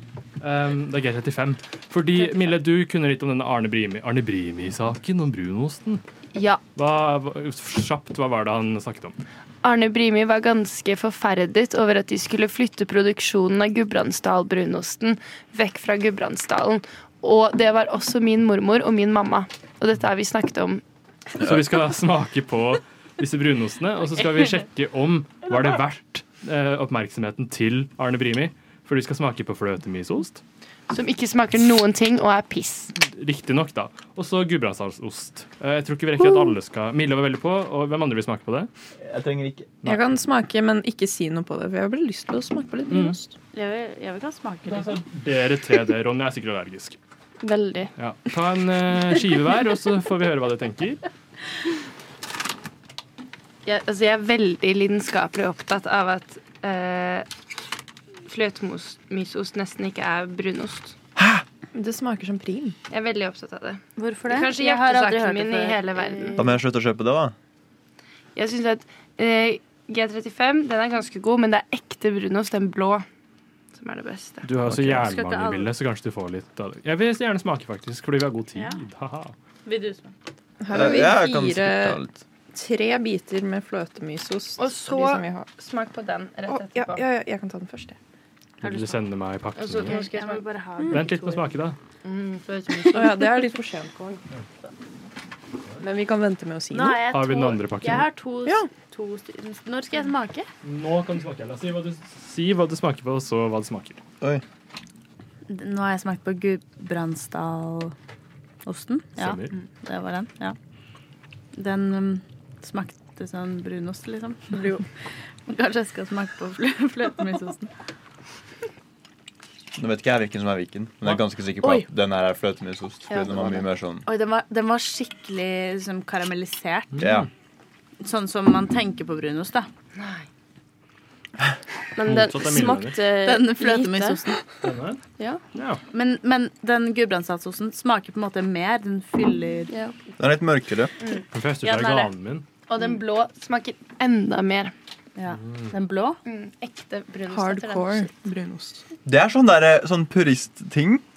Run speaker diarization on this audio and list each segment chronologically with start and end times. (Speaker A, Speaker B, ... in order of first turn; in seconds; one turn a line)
Speaker A: 0.4-6.0
Speaker B: 2.2-2.5
Speaker C: 6.3-6.6
Speaker A: 6.8-9.2
Speaker C: 9.6-20.8
Speaker A: 21.4-30.4
Speaker C: 30.9-32.9
Speaker A: 33.0-38.7
Speaker D: 39.0-39.7
Speaker A: 39.8-40.1
Speaker E: 39.8-43.3
Speaker A: 42.9-43.1
Speaker B: 43.5-45.0
Speaker A: 44.6-47.0
Speaker F: 47.4-47.9
Speaker A: 48.0-51.0
Speaker C: 53.6-57.3
Speaker C: 58.3-61.0
Speaker D: 61.2-61.4
Speaker E: 61.7-62.8
Speaker C: 62.9-66.6
Speaker B: 64.0-66.5
Speaker D: 66.4-67.3
Speaker C: 68.3-73.0
Speaker C: 73.7-74.5
Speaker A: 74.4-79.3
Speaker D: 74.6-75.1
Speaker B: 75.0-75.7
Speaker B: 79.7-80.1
Speaker E: 80.6-82.0
Speaker D: 80.7-82.2
Speaker E: 82.5-85.5
Speaker C: 84.6-87.0
Speaker E: 86.5-88.0
Speaker B: 88.6-89.0
Speaker A: 88.6-90.0
Speaker C: 89.5-90.4
Speaker B: 89.8-91.5
Speaker A: 90.9-91.8
Speaker C: 92.0-93.4
Speaker E: 92.9-94.0
Speaker E: 95.8-97.0
Speaker B: 96.7-100.5
Speaker A: 97.1-98.1
Speaker A: 100.6-104.0
Speaker B: 105.5-107.9
Speaker B: 108.6-110.6
Speaker A: 109.2-109.5
Speaker B: 111.5-114.8
Speaker B: 115.5-117.7
Speaker D: 119.8-124.0
Speaker B: 123.1-127.0
Speaker A: 126.9-127.3
Speaker D: 127.0-127.3
Speaker B: 128.0-129.7
Speaker C: 129.9-130.2
Speaker F: 131.9-134.2
Speaker A: 132.0-133.0
Speaker B: 133.2-134.4
Speaker A: 134.6-135.0
Speaker A: 135.5-135.8
Speaker B: 135.9-139.7
Speaker F: 139.7-139.9
Speaker D: 140.2-140.9
Speaker C: 141.0-141.2
Speaker A: 141.3-142.4
Speaker B: 141.6-142.1
Speaker C: 142.7-144.7
Speaker B: 145.2-146.2
Speaker A: 145.3-145.7
Speaker C: 146.2-148.2
Speaker E: 147.3-148.8
Speaker D: 149.0-151.0